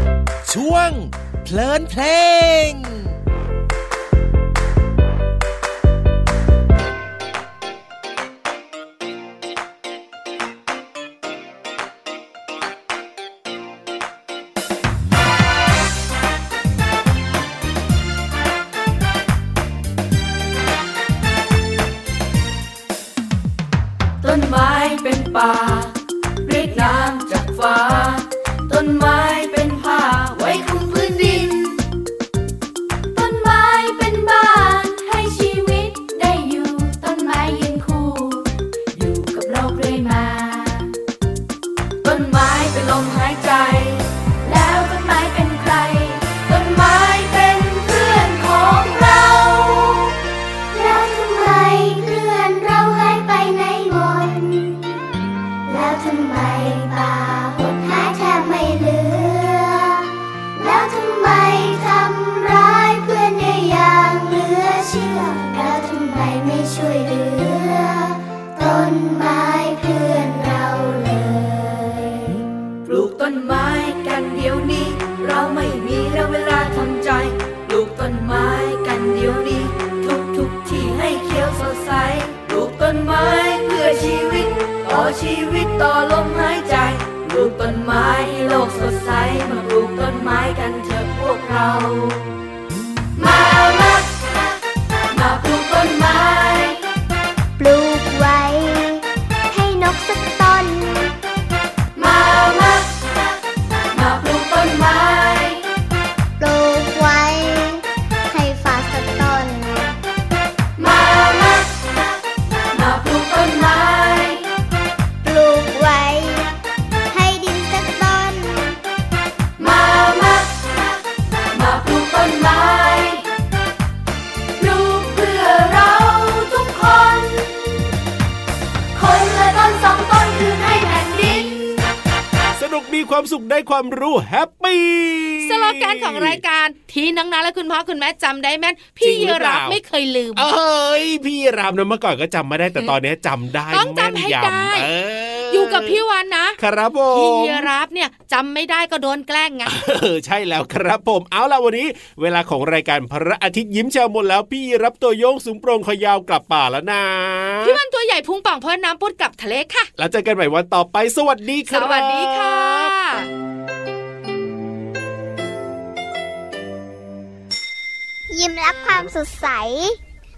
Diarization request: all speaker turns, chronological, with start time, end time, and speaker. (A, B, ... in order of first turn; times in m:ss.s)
0:00.5-0:03.1 A
0:24.2-0:31.8 B
0:33.1-0:40.9 B
0:42.0-0:49.8 B
0:50.7-0:54.8 C
0:55.6-1:12.2 C
1:12.8-1:32.2 B
1:33.2-1:34.1 B
1:35.1-1:36.8 B
1:37.6-1:41.1 C
1:41.9-1:43.0 B
1:43.9-1:45.6 B
1:46.4-1:50.0 C
1:50.8-1:51.7 B
1:52.7-1:54.5 B
1:55.2-1:56.5 C
1:57.1-1:58.8 C
1:59.6-2:00.7 B
2:01.5-2:03.2 B
2:04.6-2:07.7 B
2:08.9-2:11.8 B
2:12.6-2:16.4 D
2:15.4-2:20.5 E
2:19.0-2:19.8 D
2:20.4-2:26.0 D
2:23.7-2:24.9 E
2:25.5-2:26.6 E
2:26.6-2:27.7 D
2:27.1-2:29.7 E
2:29.6-2:37.8 D
2:37.6-2:39.9 E
2:40.0-2:42.9 D
2:41.7-2:43.3 E
2:48.3-2:50.0 C